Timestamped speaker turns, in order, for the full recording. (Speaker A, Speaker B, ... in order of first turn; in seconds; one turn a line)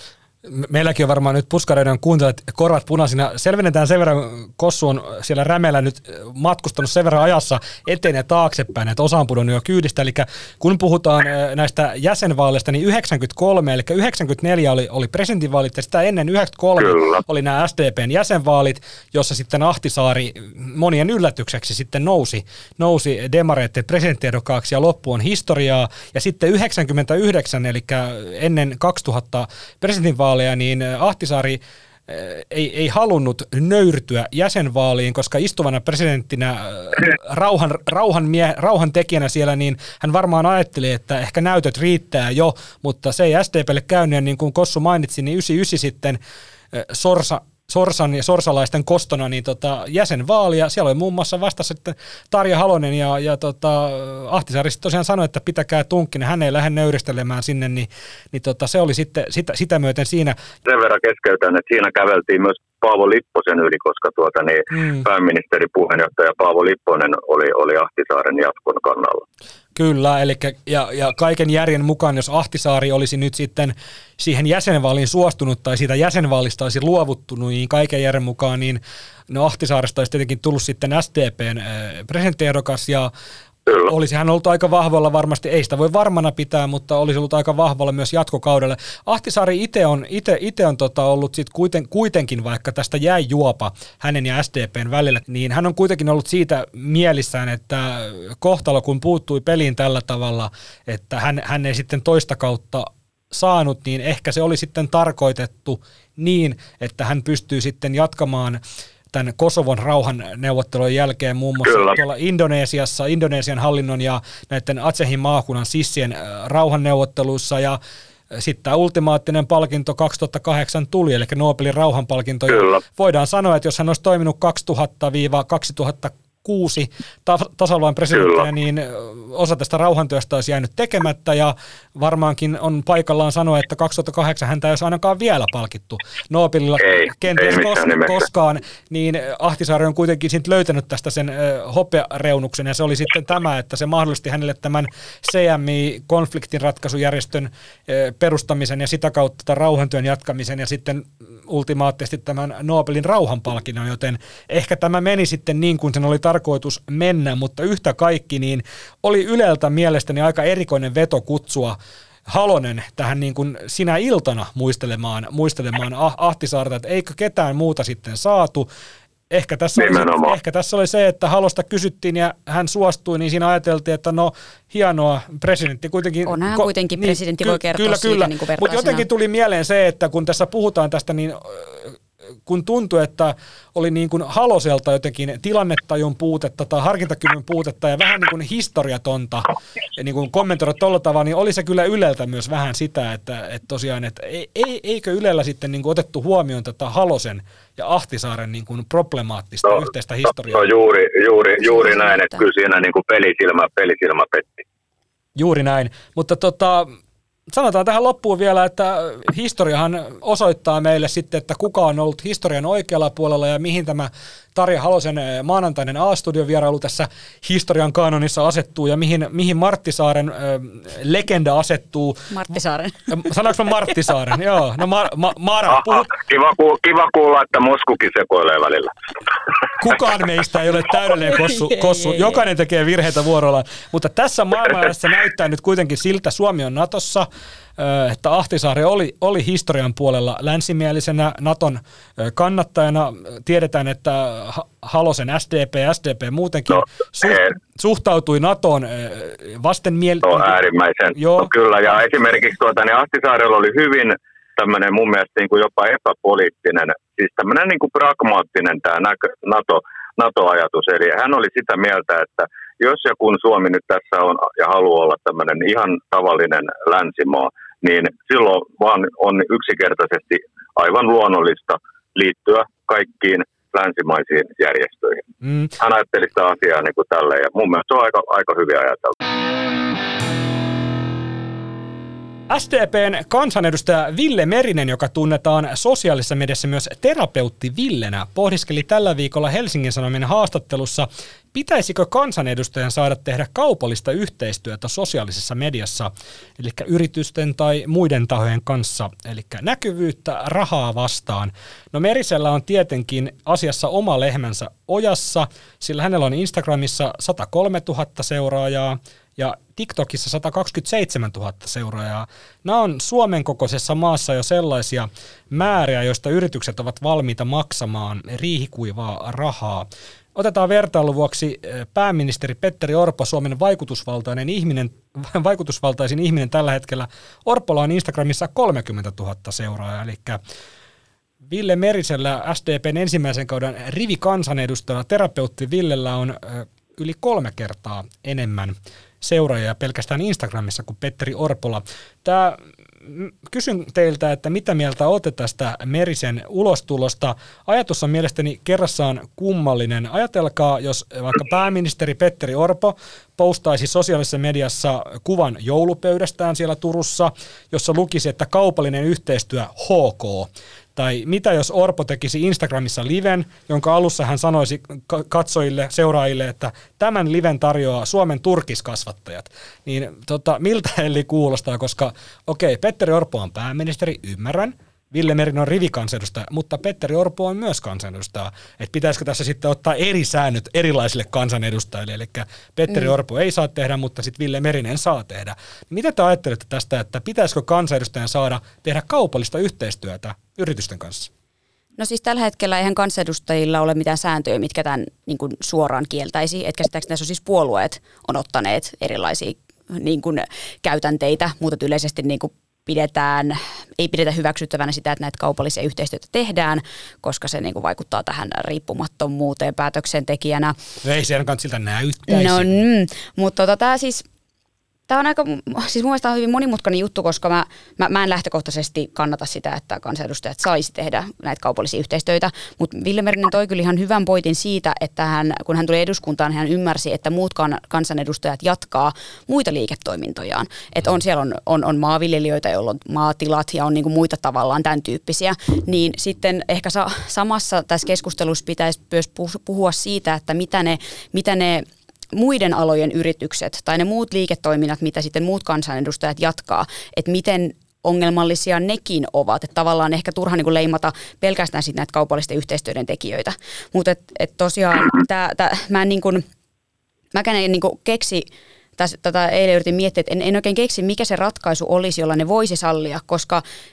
Speaker A: 0.5-46.2
Speaker B: 16.8-17.2
Speaker A: 46.7-60.4
Speaker B: 60.6-69.2
Speaker A: 64.8-65.0
Speaker A: 69.7-83.1
Speaker A: 83.7-108.6
Speaker A: 109.1-117.8
Speaker B: 111.6-112.0
Speaker A: 118.3-161.8
Speaker B: 122.5-122.8
Speaker B: 128.1-128.4
Speaker B: 136.8-138.2
Speaker A: 162.3-168.7
Speaker A: 169.3-189.4
Speaker B: 169.8-170.3
Speaker C: 176.2-179.0
Speaker A: 189.9-200.7
Speaker B: 200.5-204.6
Speaker C: 201.7-202.4
Speaker A: 205.3-206.9
Speaker A: 207.5-222.3
Speaker C: 222.3-223.1
Speaker A: 223.1-226.1
Speaker B: 225.7-228.9
Speaker A: 229.8-250.5
Speaker B: 250.2-279.1
Speaker A: 251.2-251.5
Speaker A: 275.4-275.7
Speaker A: 282.5-330.4
Speaker A: 331.4-391.3
Speaker C: 392.0-410.8
Speaker A: 411.0-412.8
Speaker C: 412.3-414.2
Speaker C: 415.1-456.4
Speaker C: 457.3-463.6